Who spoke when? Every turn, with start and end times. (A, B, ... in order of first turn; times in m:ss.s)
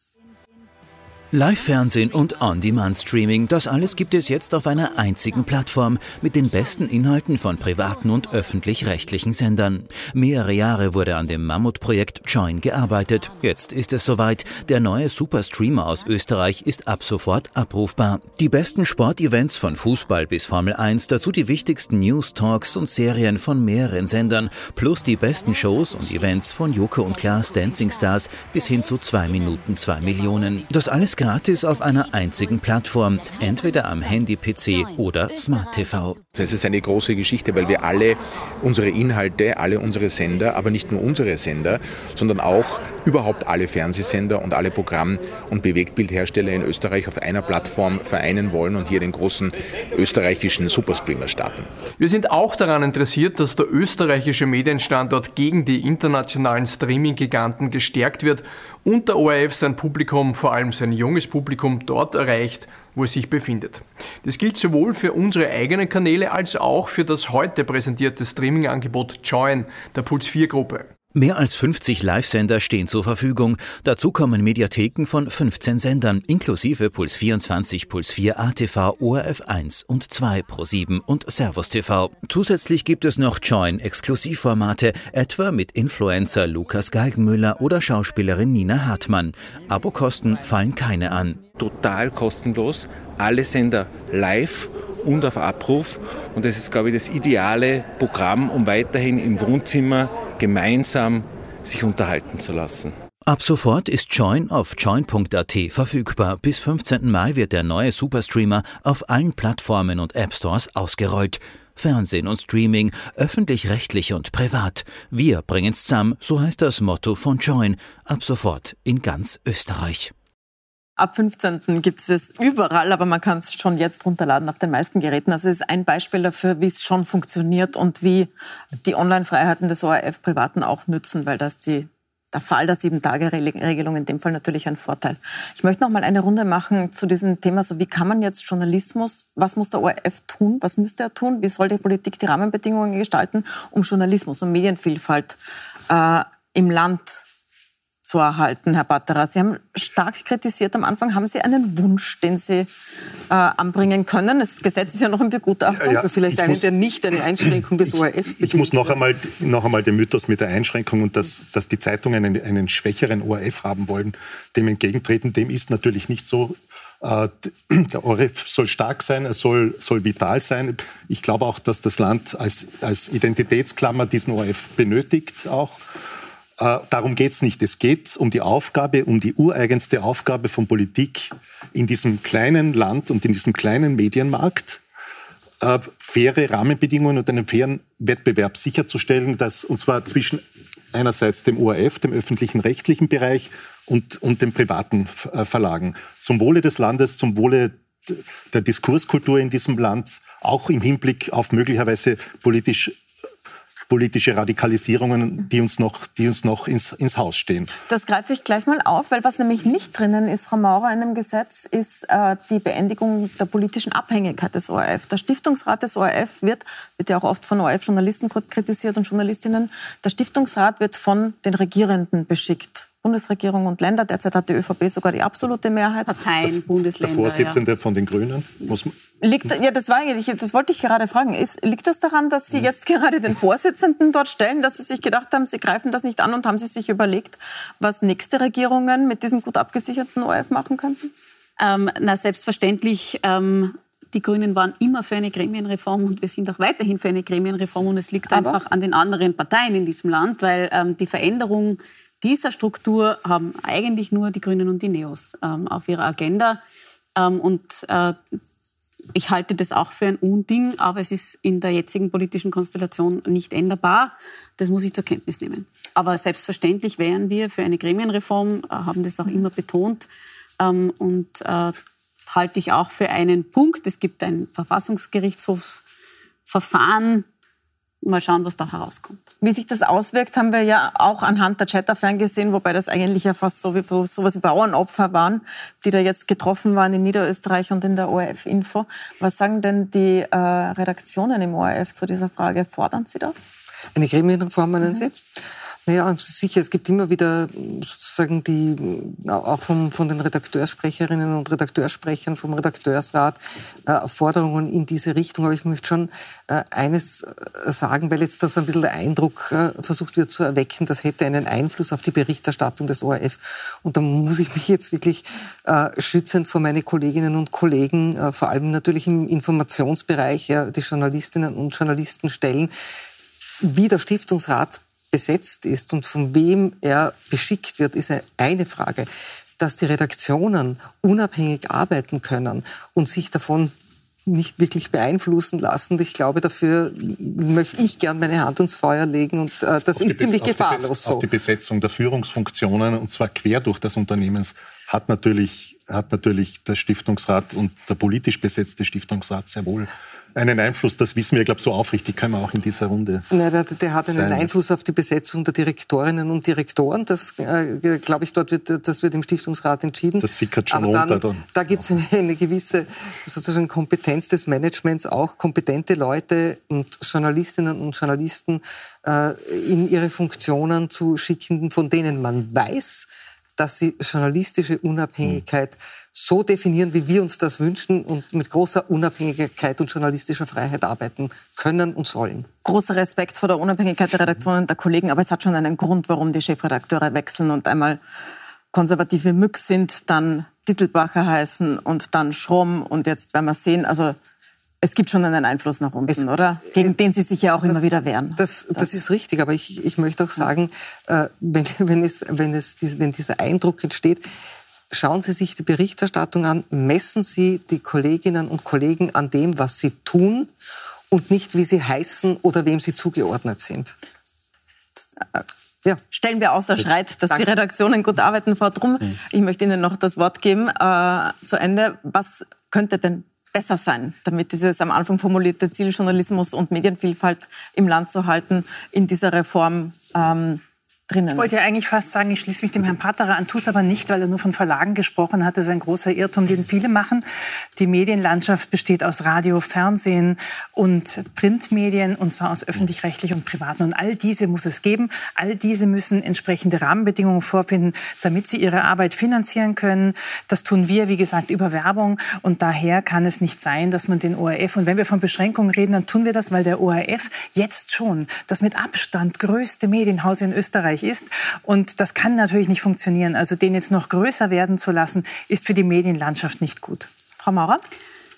0:01.3-0:36.2 A
0:36.3-0:51.8 B
0:52.0-1:10.9 C
1:11.1-1:31.4 A
1:31.4-1:43.0 D
1:43.3-2:00.1 A
2:01.0-2:25.4 E
2:25.9-2:27.2 E
2:28.0-2:32.7 E
2:33.3-2:36.0 E
2:35.8-2:36.7 F
2:36.0-2:39.0 G
2:38.3-2:55.8 F
2:56.6-3:04.8 F
3:05.6-3:23.0 F
3:23.9-3:27.7 F
3:27.9-3:46.2 E
3:46.0-3:47.6 H
3:47.0-3:48.9 F
3:49.2-4:01.1 E
4:01.6-4:16.6 H
4:08.3-4:08.6 E
4:17.2-4:18.2 H
4:19.1-4:30.1 H
4:30.6-4:31.8 H
4:32.3-4:35.8 H
4:36.5-4:37.2 H
4:38.0-4:39.2 H
4:39.4-4:53.4 E
4:53.9-5:22.7 G
5:23.6-5:33.7 G
5:34.2-5:41.2 G
5:40.0-5:53.2 F
5:53.3-6:22.5 G
5:54.0-5:54.5 F
6:00.2-6:01.4 F
6:22.6-6:28.0 E
6:28.7-6:34.2 E
6:34.8-6:38.9 E
6:36.1-6:36.9 G
6:38.4-6:44.2 G
6:44.9-6:50.5 G
6:51.1-6:53.9 G
6:55.0-6:55.4 E
6:56.1-7:11.6 E
7:11.3-7:17.2 I
7:17.8-7:47.1 I
7:47.4-7:47.8 E